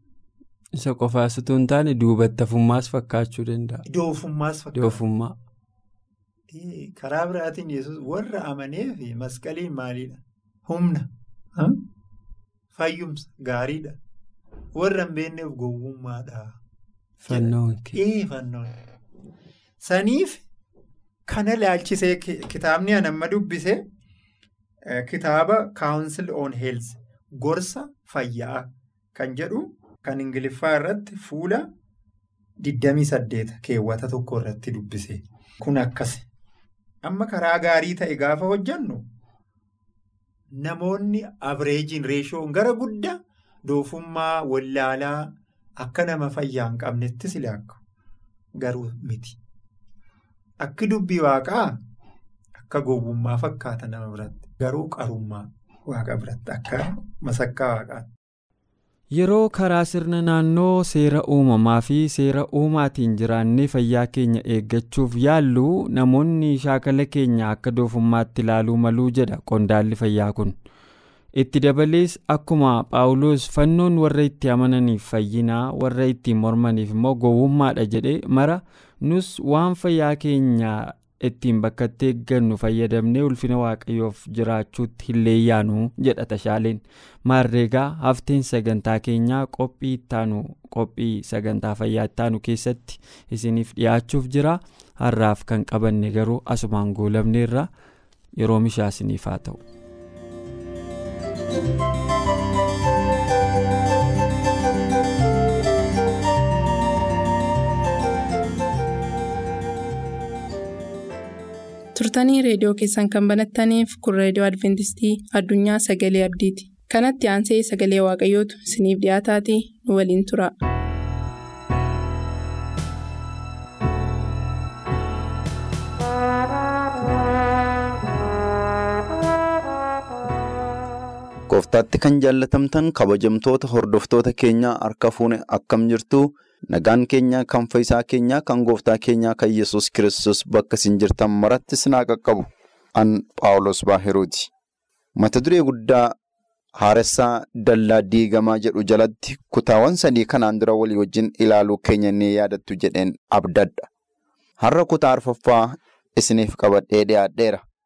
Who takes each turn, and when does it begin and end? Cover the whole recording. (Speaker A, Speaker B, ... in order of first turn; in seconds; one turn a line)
Speaker A: 0.8-3.8
Speaker B: 3.9-5.0
Speaker A: 4.7-5.4
Speaker B: 6.5-11.8
Speaker B: 12.7-14.0
Speaker B: 14.8-16.6
Speaker A: 17.2-18.0
Speaker B: 17.3-18.7
Speaker B: 19.8-20.4
Speaker B: 21.3-23.8
Speaker B: 24.9-31.7
Speaker B: 32.6-36.2
Speaker B: 37.0-39.0
Speaker B: 40.6-47.8
Speaker B: 48.6-49.4
Speaker B: 50.6-51.7
Speaker B: 52.6-58.1
Speaker A: 59.1-70.5
Speaker A: 71.3-97.7
Speaker A: 98.4-99.6
Speaker C: 111.9-120.5
Speaker D: 131.5-144.5
Speaker D: 145.2-146.1
Speaker D: 146.8-153.8
Speaker D: 154.6-157.6